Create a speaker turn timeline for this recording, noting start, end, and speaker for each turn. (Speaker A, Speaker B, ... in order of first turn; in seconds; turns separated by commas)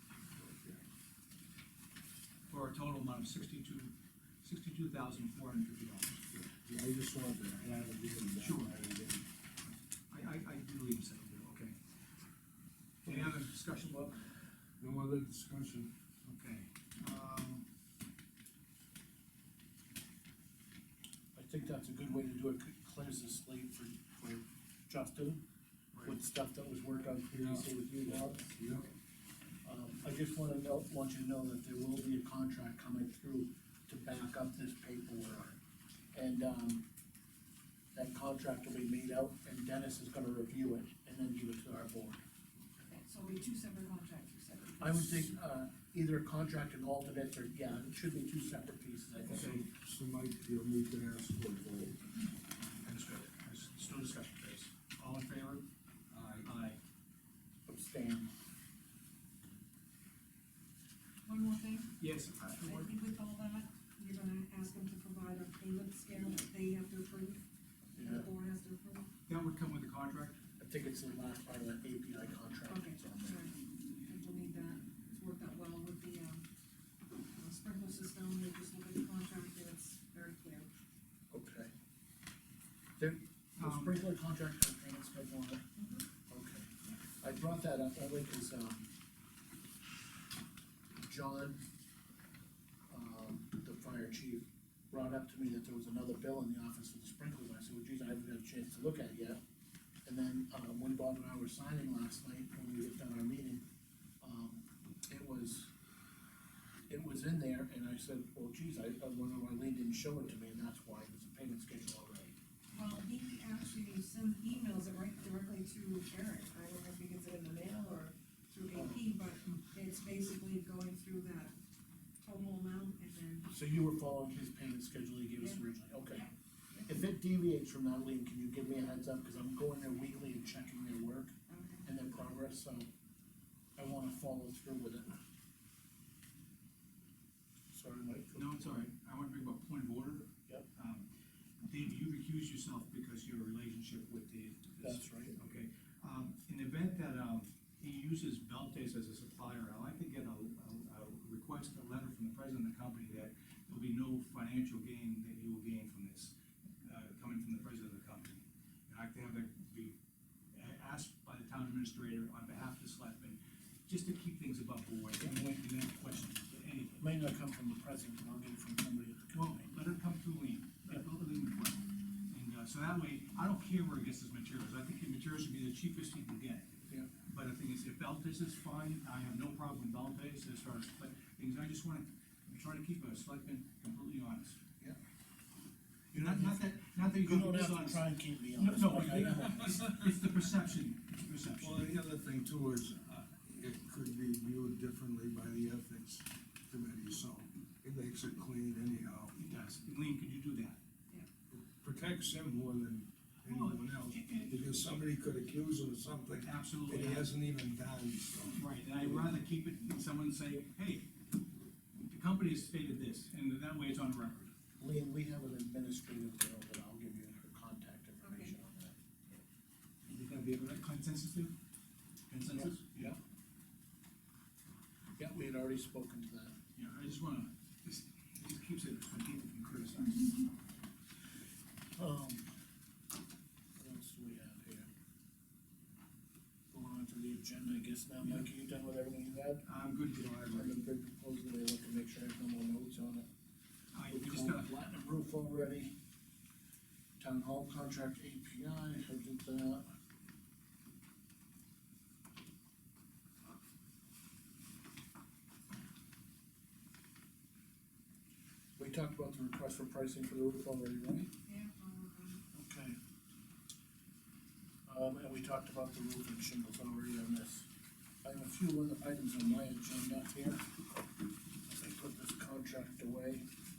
Speaker A: 0.3-0.8, Speaker B: 2.5-3.9, Speaker B: 4.4-6.2, Speaker A: 6.3-9.2, Speaker B: 8.4-8.7, Speaker B: 9.7-11.7, Speaker B: 13.0-14.2, Speaker A: 13.1-13.3, Speaker A: 14.8-15.9, Speaker B: 16.2-17.6, Speaker C: 21.3-25.4, Speaker C: 26.0-28.4, Speaker A: 27.3-27.7, Speaker A: 28.3-28.9, Speaker C: 29.6-35.5, Speaker C: 36.1-36.8, Speaker C: 37.9-42.2, Speaker D: 42.8-45.3, Speaker C: 44.8-49.5, Speaker A: 49.2-52.0, Speaker B: 49.3-49.6, Speaker B: 52.7-56.8, Speaker C: 57.7-58.3, Speaker D: 61.2-62.0, Speaker B: 62.0-62.9, Speaker D: 62.6-67.4, Speaker D: 67.9-69.1, Speaker C: 68.0-68.3, Speaker B: 69.3-70.4, Speaker C: 70.6-73.4, Speaker D: 72.7-76.5, Speaker D: 77.2-80.7, Speaker C: 81.3-81.7, Speaker C: 83.0-85.7, Speaker B: 83.6-84.0, Speaker D: 85.8-86.0, Speaker C: 86.3-88.9, Speaker C: 91.0-91.6, Speaker C: 92.9-99.4, Speaker C: 100.0-103.6, Speaker C: 104.2-105.7, Speaker C: 106.9-112.4, Speaker D: 112.7-121.5, Speaker C: 118.7-119.0, Speaker D: 122.2-123.5, Speaker C: 123.5-126.3, Speaker D: 125.4-126.9, Speaker C: 126.8-132.9, Speaker D: 131.5-131.8, Speaker C: 133.8-135.2, Speaker C: 137.7-138.8, Speaker B: 138.3-141.1, Speaker B: 141.6-159.9, Speaker C: 144.8-145.3, Speaker B: 160.5-167.0, Speaker C: 165.2-165.4, Speaker C: 167.0-169.7, Speaker B: 169.3-176.7, Speaker B: 177.2-184.6, Speaker C: 186.1-189.9, Speaker B: 186.1-191.8, Speaker A: 191.6-199.3, Speaker B: 199.3-200.8, Speaker A: 201.5-209.4, Speaker B: 203.4-204.7, Speaker B: 206.4-207.3, Speaker B: 208.5-211.1, Speaker B: 212.1-214.5, Speaker C: 214.8-219.0, Speaker D: 218.2-218.5, Speaker B: 220.1-221.5, Speaker B: 222.3-223.1, Speaker C: 222.5-223.2, Speaker C: 225.2-226.6, Speaker B: 226.8-230.5, Speaker C: 231.9-232.5, Speaker C: 233.8-234.9, Speaker C: 236.7-239.6, Speaker B: 238.2-238.5, Speaker B: 239.6-240.8, Speaker C: 240.5-243.2, Speaker B: 243.9-244.7, Speaker C: 244.1-245.9, Speaker C: 247.2-249.9, Speaker C: 258.8-261.3, Speaker D: 261.4-262.4, Speaker C: 262.5-263.0, Speaker C: 264.8-267.7, Speaker C: 268.2-270.6, Speaker C: 271.7-273.4